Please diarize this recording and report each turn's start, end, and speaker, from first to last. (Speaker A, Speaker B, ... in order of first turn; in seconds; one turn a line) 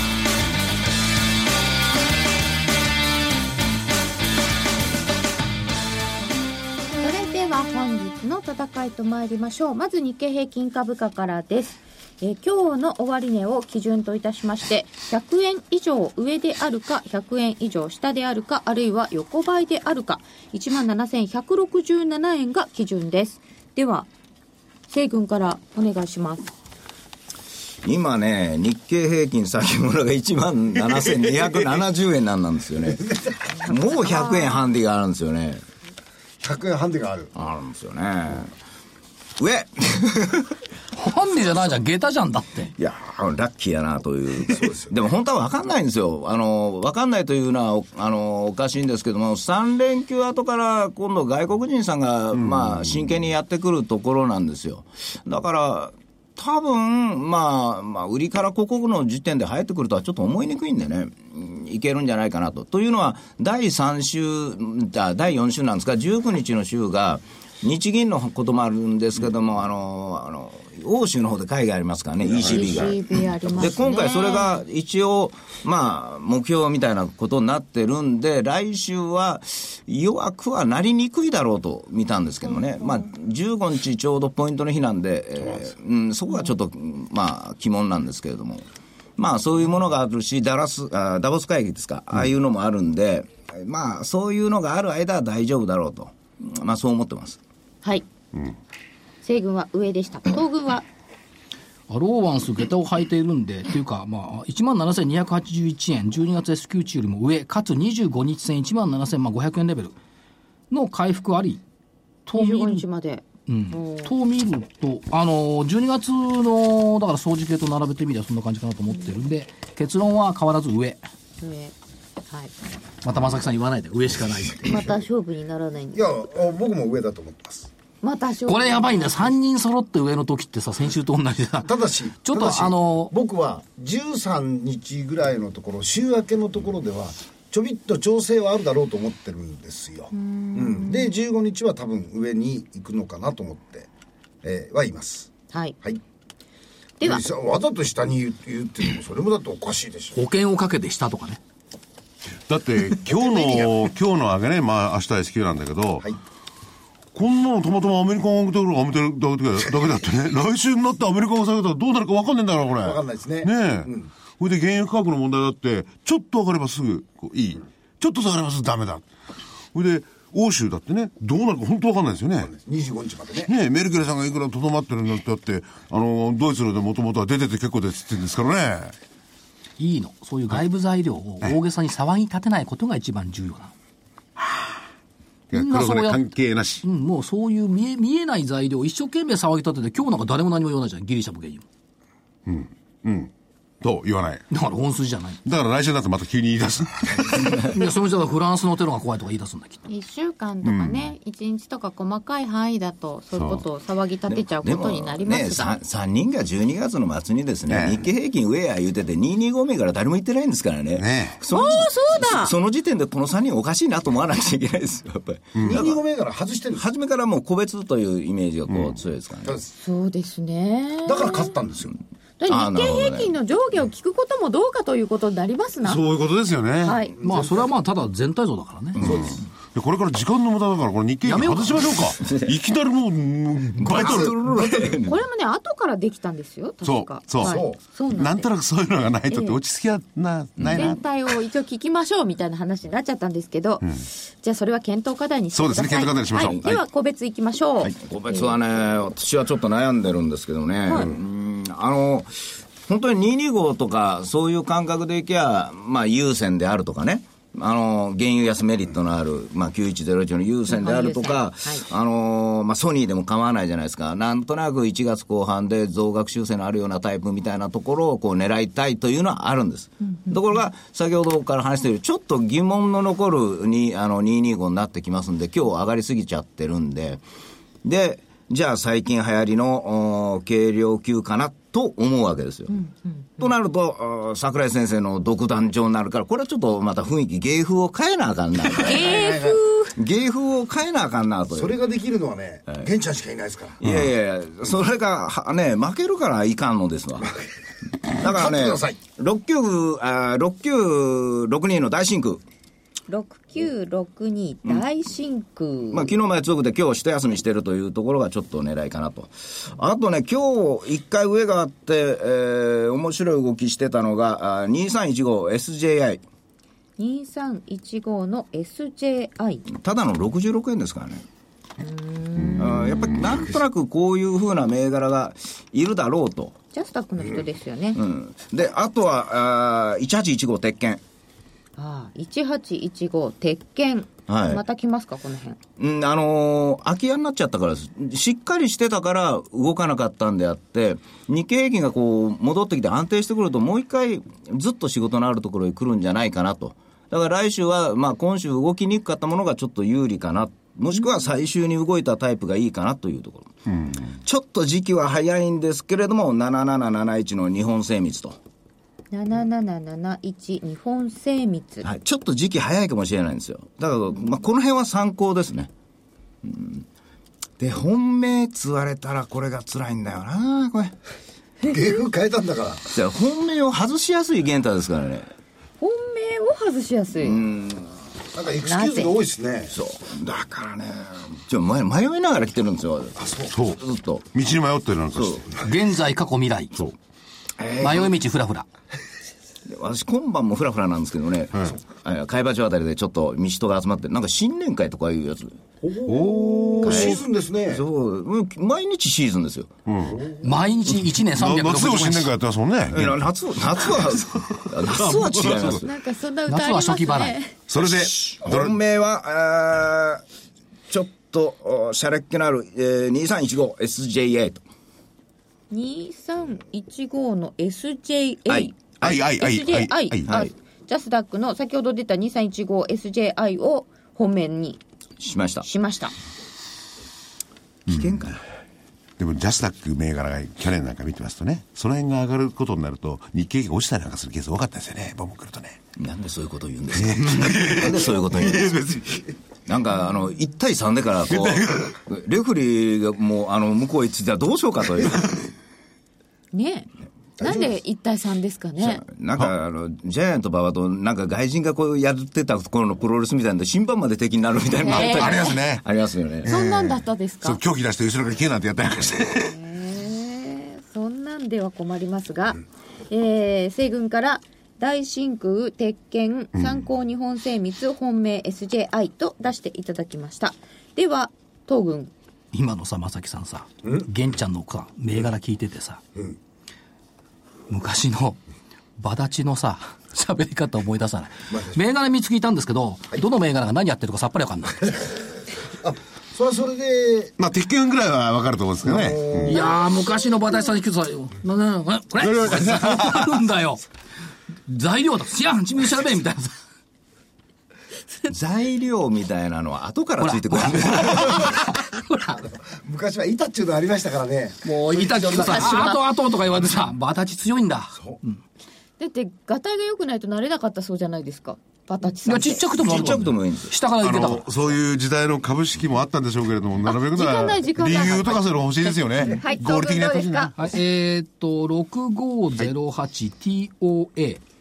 Speaker A: 7.0-24.1
Speaker A: 24.9-26.5
Speaker B: 27.8-33.1
Speaker C: 33.0-33.6
Speaker B: 33.6-35.6
Speaker A: 34.0-34.6
Speaker C: 36.4-37.3
Speaker B: 37.3-38.5
Speaker B: 39.4-40.5
Speaker D: 41.0-42.7
Speaker B: 42.8-88.7
Speaker C: 44.5-44.9
Speaker E: 52.4-53.0
Speaker A: 72.5-74.6
Speaker B: 89.2-97.4
Speaker A: 99.2-100.9
Speaker D: 101.9-110.0
Speaker D: 110.7-111.6
Speaker D: 112.3-112.9
Speaker A: 112.3-114.1
Speaker D: 113.5-121.0
Speaker A: 121.4-121.8
Speaker D: 123.0-124.8
Speaker A: 124.6-126.0
Speaker C: 125.9-127.7
Speaker A: 128.0-129.3
Speaker D: 128.5-133.1
Speaker C: 131.6-143.9
Speaker A: 140.1-141.1
Speaker C: 144.4-145.3
Speaker C: 147.0-150.2
Speaker D: 150.1-151.4
Speaker E: 152.5-156.1
Speaker C: 153.1-153.9
Speaker E: 157.1-169.1
Speaker C: 162.8-164.1
Speaker E: 169.7-172.5
Speaker C: 172.4-173.5
Speaker E: 173.5-178.9
Speaker D: 179.8-183.7
Speaker E: 184.4-184.8
Speaker E: 185.5-186.8
Speaker D: 185.5-186.3
Speaker D: 186.8-191.7
Speaker E: 192.5-194.4
Speaker D: 194.5-195.4
Speaker E: 195.4-197.7
Speaker D: 197.6-199.8
Speaker A: 199.9-205.8
Speaker E: 200.6-201.1
Speaker E: 203.4-203.6
Speaker B: 204.3-216.0
Speaker E: 207.7-208.1
Speaker E: 211.0-211.4
Speaker A: 211.5-212.6
Speaker E: 215.6-215.9
Speaker C: 215.6-216.9
Speaker B: 216.7-219.6
Speaker E: 218.7-219.0
Speaker A: 219.7-221.6
Speaker C: 221.1-222.0
Speaker A: 222.4-226.1
Speaker B: 222.5-223.4
Speaker E: 225.8-227.0
Speaker A: 226.8-227.2
Speaker C: 227.2-227.7
Speaker D: 227.2-229.0
Speaker B: 229.0-229.4
Speaker E: 229.0-234.4
Speaker D: 231.2-232.0
Speaker B: 232.2-232.6
Speaker B: 233.8-235.2
Speaker C: 233.9-234.9
Speaker A: 235.1-238.5
Speaker E: 236.8-241.0
Speaker C: 237.4-237.8
Speaker A: 239.3-239.6
Speaker B: 240.6-240.9
Speaker A: 240.7-248.5
Speaker E: 245.5-246.8
Speaker B: 246.4-246.7
Speaker B: 247.8-277.2
Speaker A: 250.9-251.1
Speaker A: 260.7-261.9
Speaker B: 277.8-282.8
Speaker A: 282.7-283.5
Speaker B: 283.4-289.4
Speaker A: 288.8-290.0
Speaker C: 288.9-289.6
Speaker B: 289.9-291.7
Speaker C: 291.5-293.8
Speaker B: 293.8-297.3
Speaker B: 298.2-302.4
Speaker C: 298.2-299.0
Speaker A: 303.1-306.1
Speaker B: 305.9-316.2
Speaker A: 317.0-319.6
Speaker B: 319.7-321.2
Speaker A: 321.8-322.9
Speaker E: 322.6-323.2
Speaker B: 322.6-326.6
Speaker A: 326.7-328.0
Speaker B: 327.9-331.0
Speaker A: 331.8-335.6
Speaker B: 334.3-334.6
Speaker B: 335.8-358.4
Speaker E: 353.7-354.0
Speaker A: 359.1-361.9
Speaker B: 361.8-365.7
Speaker B: 366.4-366.9
Speaker B: 367.6-371.0
Speaker C: 371.6-372.9
Speaker B: 372.9-375.3
Speaker A: 375.8-377.5
Speaker B: 377.2-377.9
Speaker C: 378.3-379.8
Speaker A: 378.6-379.1
Speaker B: 379.7-384.4
Speaker C: 383.2-383.5
Speaker E: 383.5-383.8
Speaker E: 384.3-385.5
Speaker B: 385.1-385.5
Speaker D: 385.6-386.9
Speaker B: 387.6-388.1
Speaker D: 387.8-388.7
Speaker B: 389.7-395.7
Speaker C: 396.0-397.8
Speaker E: 396.0-397.2
Speaker B: 396.8-399.8
Speaker E: 399.9-400.2
Speaker C: 400.1-400.6
Speaker D: 400.4-402.3
Speaker E: 401.2-403.2
Speaker B: 402.9-405.9
Speaker E: 403.9-405.8
Speaker A: 405.8-407.6
Speaker D: 406.5-407.4
Speaker E: 407.7-408.8
Speaker B: 407.8-410.2
Speaker B: 410.9-414.6
Speaker A: 415.7-424.8
Speaker B: 418.5-419.2
Speaker E: 419.0-420.3
Speaker B: 420.2-420.5
Speaker B: 425.2-425.7
Speaker A: 425.6-426.1
Speaker B: 427.9-428.4
Speaker E: 427.9-428.2
Speaker E: 429.2-435.8
Speaker B: 436.0-438.8
Speaker E: 437.0-439.2
Speaker B: 439.7-445.3
Speaker E: 441.3-441.9
Speaker A: 446.5-449.0
Speaker C: 447.4-447.8
Speaker B: 448.8-456.5
Speaker A: 454.8-455.6
Speaker E: 454.9-455.9
Speaker E: 456.4-459.6
Speaker A: 456.5-457.6
Speaker A: 459.4-472.1
Speaker D: 472.5-476.0
Speaker D: 477.7-478.4
Speaker D: 479.0-485.0
Speaker C: 481.5-481.8
Speaker C: 485.8-487.3
Speaker E: 487.4-489.6
Speaker C: 488.8-489.7
Speaker D: 489.4-493.8
Speaker E: 492.2-493.4
Speaker D: 494.7-496.6
Speaker B: 498.3-501.6
Speaker D: 500.2-502.4
Speaker C: 502.6-504.8
Speaker D: 504.6-508.4
Speaker A: 504.9-506.1
Speaker A: 509.0-513.1
Speaker D: 512.2-514.5
Speaker B: 512.7-513.8
Speaker E: 514.0-520.6
Speaker A: 516.9-520.6
Speaker D: 520.6-524.4